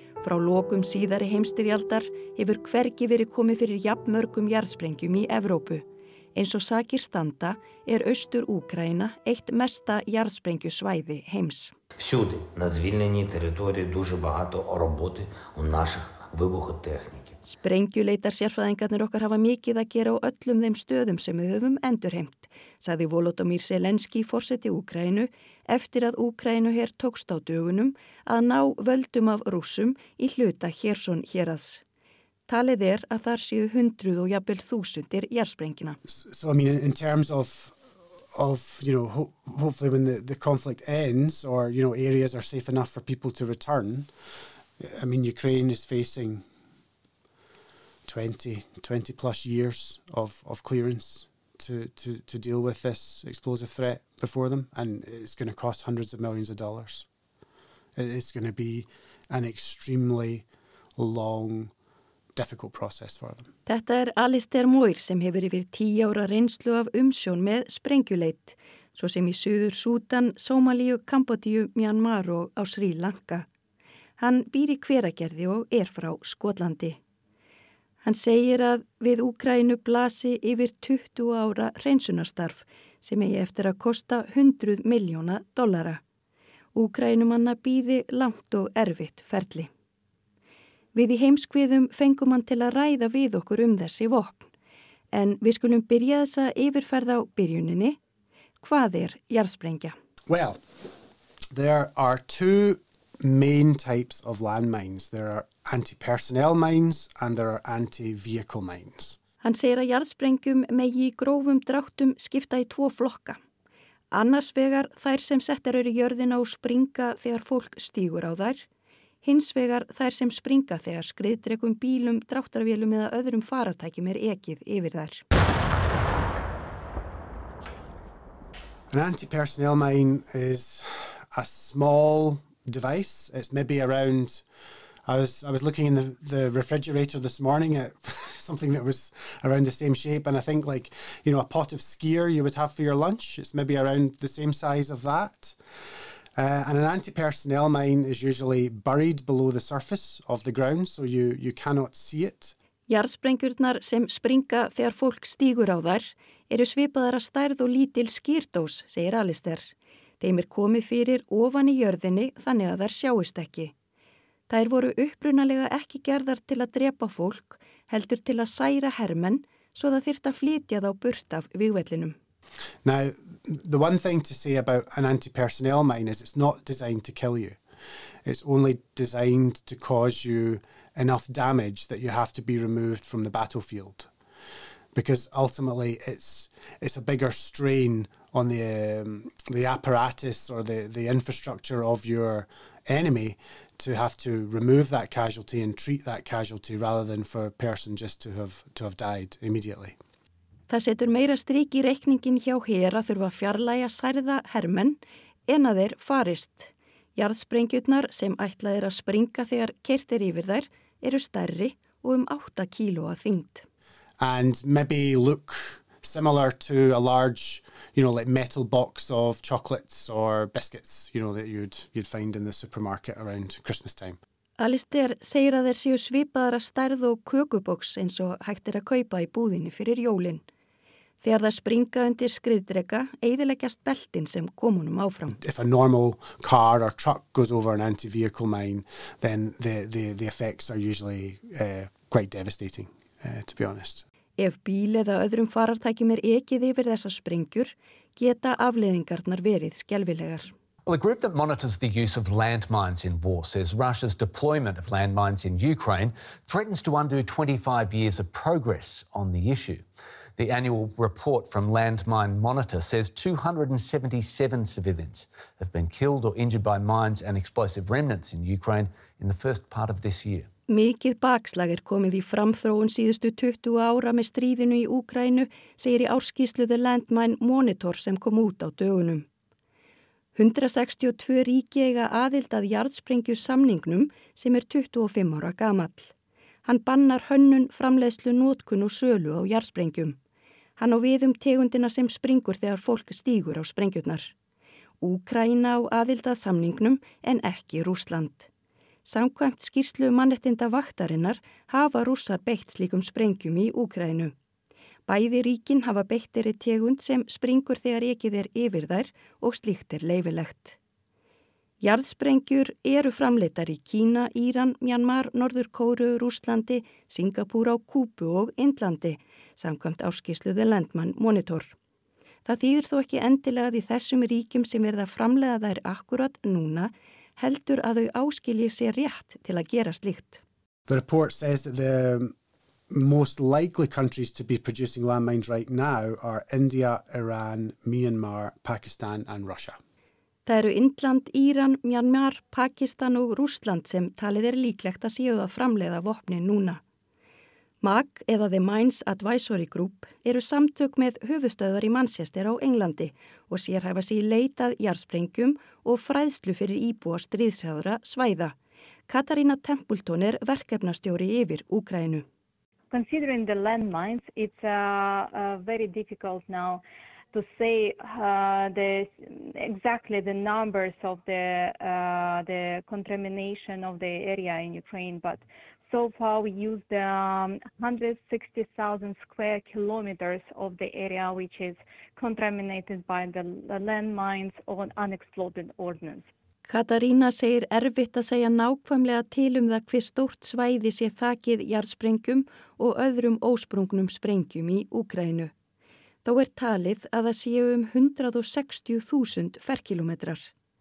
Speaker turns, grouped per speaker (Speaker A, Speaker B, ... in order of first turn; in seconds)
Speaker A: 0.2-11.7, 17.4-31.8, 32.5-36.0, 63.7-73.5, 74.2-77.0, 78.0-86.0, 86.7-89.7, 90.9-94.5, 95.1-98.0, 98.6-100.0, 109.4-113.4, 114.1-118.7, 119.2-125.2, 152.9-163.7, 164.5-172.2, 200.7-213.7, 224.6-230.4, 231.2-235.4, 244.4-250.5, 270.7-279.3, 280.4-286.1, 286.6-290.2, 290.8-294.3, 295.0-298.5, 299.1-304.3, 305.1-310.8, 311.8-321.8, 322.5-330.4, 340.5-346.8, 347.8-358.6, 359.1-362.2, 386.7-395.5, 396.2-400.5
Speaker B: 12.0-17.4
Speaker C: 36.1-37.8, 38.3-44.1, 44.8-46.5, 48.1-57.1, 58.0-60.5, 61.0-61.7, 62.3-63.5, 100.3-100.6, 101.5-109.2, 128.9-134.4, 135.1-145.6, 146.4-152.6, 172.8-177.6, 178.2-184.1, 184.9-200.0, 214.2-224.2, 235.4-244.1, 330.9-332.3, 332.9-339.8
Speaker D: 250.9-259.9, 260.4-270.5
Speaker E: 362.9-386.3